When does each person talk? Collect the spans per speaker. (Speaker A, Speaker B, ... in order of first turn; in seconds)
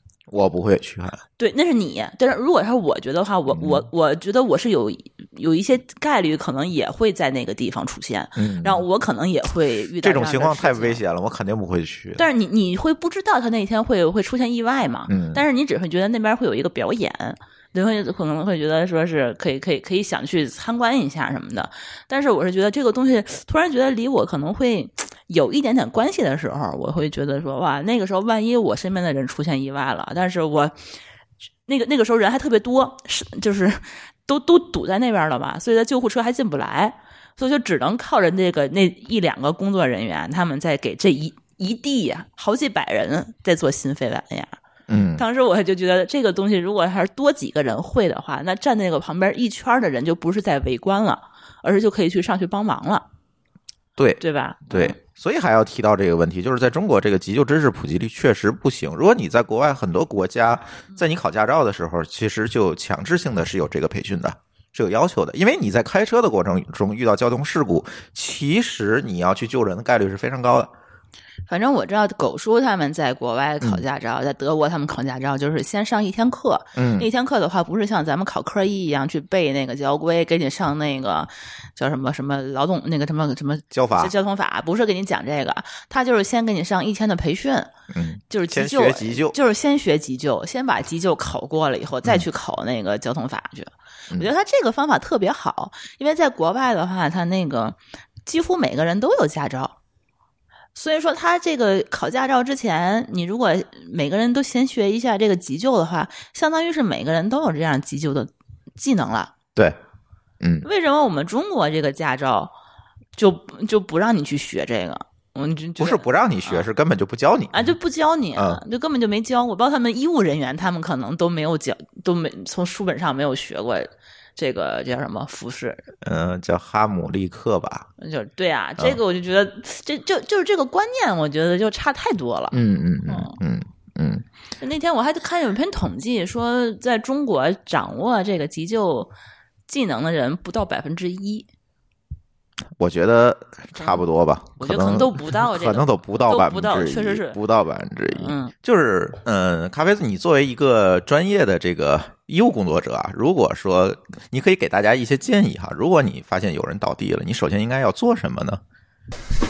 Speaker A: 0.3-1.2, 3.5-3.9, 8.4-8.8, 10.0-12.2, 15.1-15.4, 44.9-45.2, 54.0-70.7, 76.8-77.1, 83.7-84.1, 87.9-89.4, 110.4-110.7, 115.8-117.7, 118.3-118.6, 126.0-127.9, 132.5-134.2, 142.8-158.6
Speaker B: 1.4-11.0, 12.2-30.7, 31.7-44.6, 45.2-53.1, 54.2-55.0, 71.5-87.7, 88.3-99.8, 100.8-109.3, 110.6-112.5, 113.2-116.7, 117.5-125.9, 128.0-132.6, 133.1-133.4, 134.6-139.1, 139.7-141.5, 143.7-144.1, 144.6-147.4, 148.1-148.5